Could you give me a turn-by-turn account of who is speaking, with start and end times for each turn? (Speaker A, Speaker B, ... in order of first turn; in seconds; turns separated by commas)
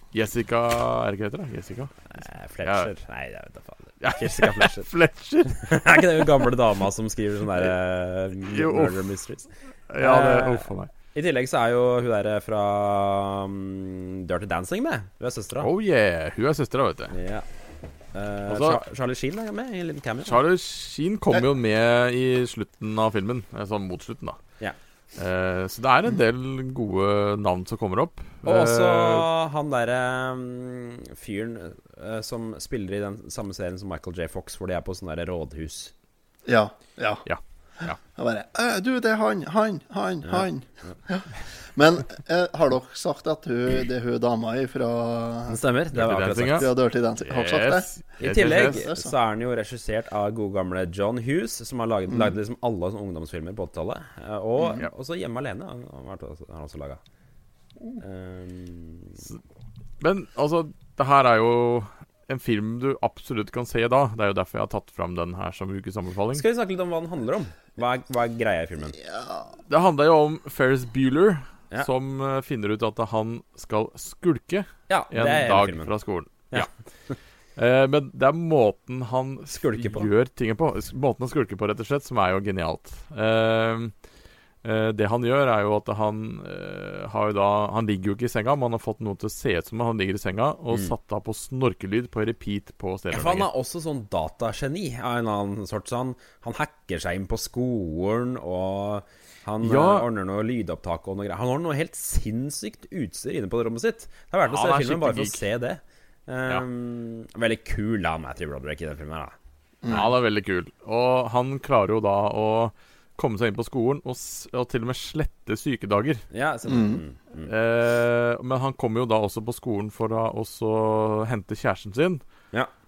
Speaker A: 0.1-2.9, Speaker B: 2.1-4.9, Speaker A: 4.0-6.4, Speaker B: 5.5-15.7, Speaker A: 8.4-9.0, Speaker A: 9.9-10.9, Speaker A: 15.6-17.1, Speaker B: 17.1-17.4, Speaker B: 18.1-20.4, Speaker A: 18.5-18.8, Speaker A: 20.2-24.4, Speaker A: 25.1-29.3, Speaker B: 28.4-35.9, Speaker C: 36.5-37.2, Speaker A: 37.2-38.0, Speaker C: 38.1-45.6, Speaker B: 40.2-41.0, Speaker B: 45.5-46.7, Speaker A: 45.9-46.7, Speaker C: 46.5-49.1, Speaker A: 47.2-48.8, Speaker B: 48.2-57.0, Speaker B: 58.0-59.3, Speaker A: 60.0-66.4, Speaker B: 66.3-69.0, Speaker C: 69.0-69.5, Speaker A: 69.7-76.7, Speaker B: 74.9-75.9, Speaker B: 76.5-77.2, Speaker A: 77.5-83.9, Speaker B: 79.5-80.1, Speaker A: 84.6-93.5, Speaker B: 93.1-109.3, Speaker A: 99.6-100.0, Speaker A: 104.5-105.4, Speaker C: 109.8-110.1, Speaker A: 109.9-116.2, Speaker B: 116.3-117.5, Speaker C: 116.7-117.0, Speaker A: 117.5-122.2